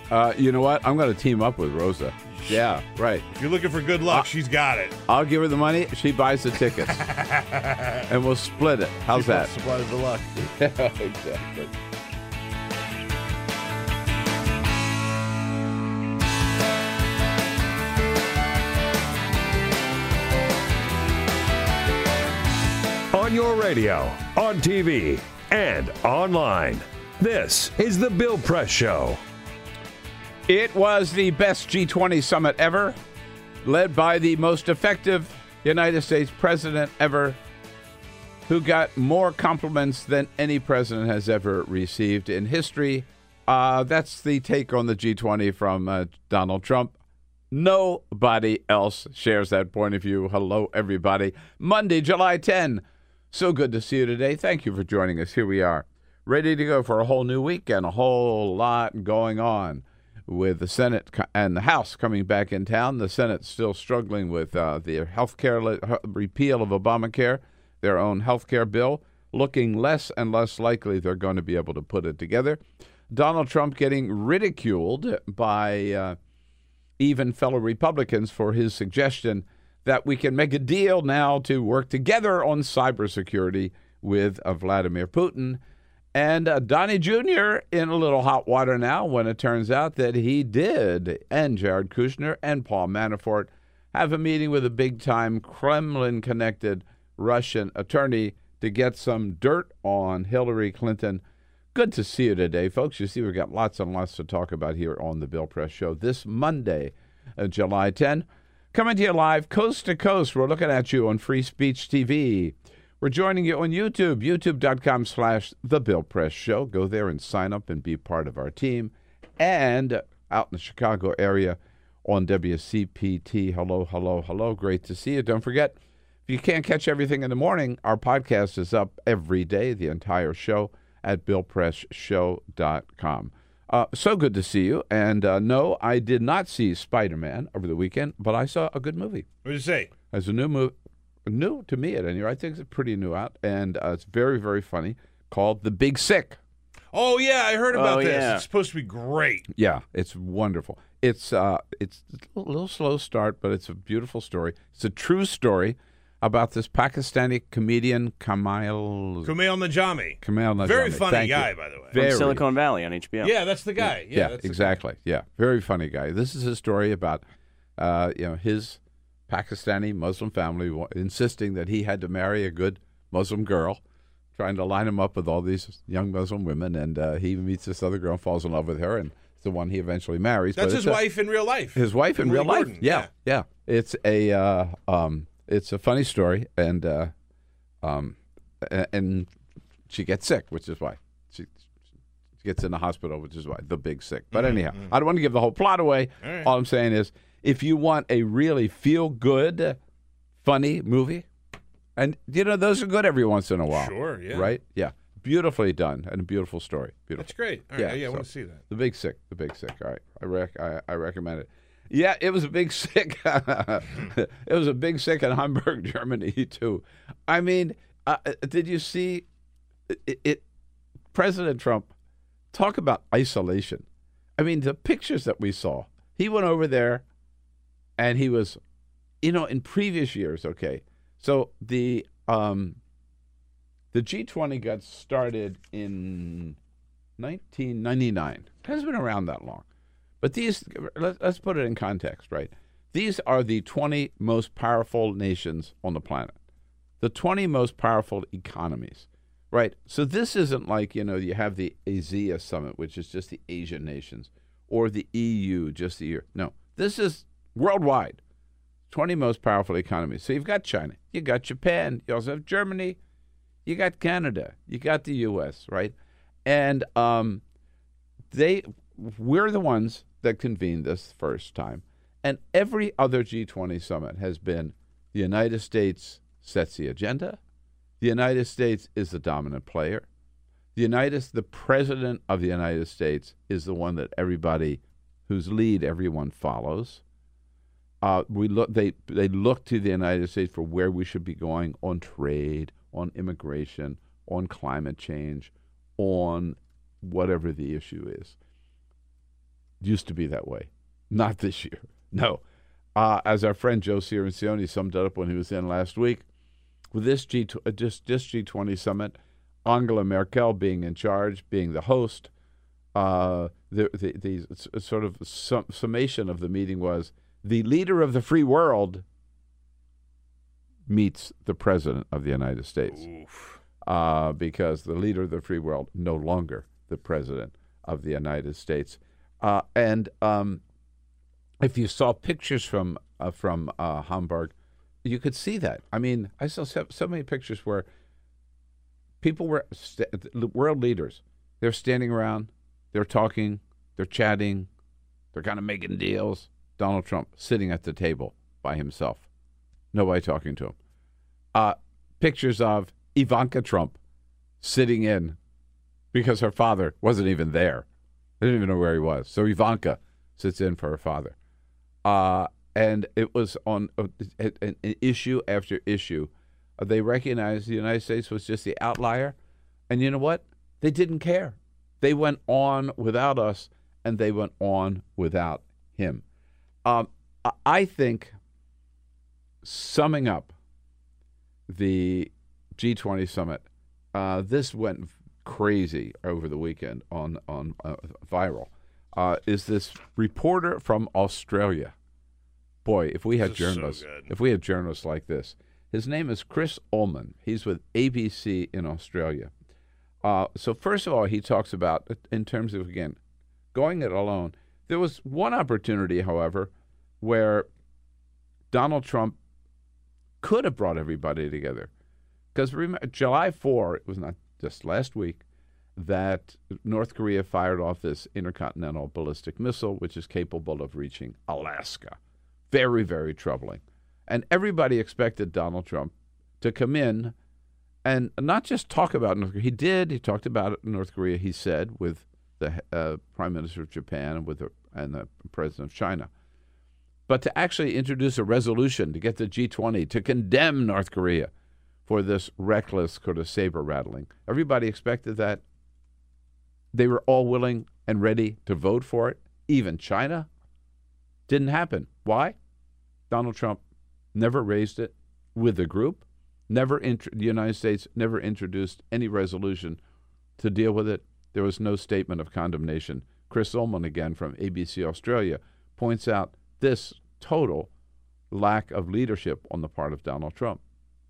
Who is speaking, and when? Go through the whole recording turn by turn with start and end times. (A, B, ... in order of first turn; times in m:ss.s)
0:00.1-0:03.2 A
0:03.3-0:05.0 B
0:05.1-0:07.0 A
0:06.9-0:08.1 B
0:08.1-0:09.5 A
0:09.1-0:10.3 B
0:10.4-0:11.7 A
0:23.1-0:29.2 C
0:30.5-0:33.0 A
0:33.6-0:37.4 A
0:38.5-0:47.0 A
0:47.5-1:16.2 A
1:17.0-1:25.6 A
1:26.2-1:41.2 A
1:41.7-2:19.3 A
2:19.4-2:19.9 B
2:20.1-2:20.7 A
2:21.3-2:26.4 A
2:26.9-2:29.5 B
2:27.7-2:28.5 D
2:29.5-2:39.3 A
2:39.2-2:42.0 B
2:40.2-2:42.4 A
2:41.9-2:43.4 D
2:43.2-2:44.8 B
2:43.8-2:47.2 A
2:47.8-2:53.8 A
2:54.4-3:01.0 A
3:00.6-3:03.1 B
3:01.7-3:07.1 A
3:07.8-3:09.3 A
3:09.9-3:11.6 A
3:12.4-3:19.8 A
3:14.3-3:14.9 B
3:16.2-3:16.5 B
3:20.4-3:21.3 A
3:22.0-3:39.2 A
3:23.7-3:24.5 B
3:27.2-3:28.6 B
3:39.9-3:40.4 A
3:41.1-3:41.9 A
3:42.5-3:43.8 A
3:44.4-3:47.0 A
3:48.0-3:48.6 A
3:49.2-3:52.8 A
3:53.9-3:56.6 A
3:57.2-3:59.7 A
4:00.2-4:06.4 A
4:07.0-4:18.2 A
4:18.9-4:23.0 A
4:23.7-4:25.9 A
4:26.4-4:27.4 A
4:28.3-4:37.4 A
4:38.0-4:40.1 A
4:40.8-4:47.0 A
4:48.0-4:58.4 A
4:59.8-5:02.4 A
5:03.0-5:06.2 A
5:06.9-5:12.3 A
5:13.0-5:19.0 A
5:20.9-5:23.1 A
5:23.8-5:30.6 A
5:31.6-5:37.9 A
5:39.2-5:44.7 A
5:45.3-5:49.3 A
5:49.9-5:50.8 A
5:51.5-5:54.0 A
5:54.6-5:55.4 A
5:56.1-5:57.9 A
5:58.4-6:01.4 A
6:02.0-6:09.4 A
6:09.9-6:16.2 A
6:16.8-6:18.3 A
6:19.6-6:20.5 A
6:21.7-6:31.9 A
6:32.8-6:39.5 A
6:33.4-6:34.3 B
6:40.2-6:43.2 A
6:43.7-6:47.7 A
6:48.7-6:49.4 A
6:50.4-6:51.9 A
6:52.5-6:55.4 A
6:56.0-7:02.2 A
7:02.7-7:07.4 A
7:08.0-7:16.3 A
7:17.3-7:21.5 A
7:22.1-7:25.6 A
7:26.9-7:30.5 A
7:31.5-7:32.6 A
7:33.3-7:33.8 A
7:34.4-7:40.0 A
7:40.6-7:47.9 A
7:48.5-7:50.8 A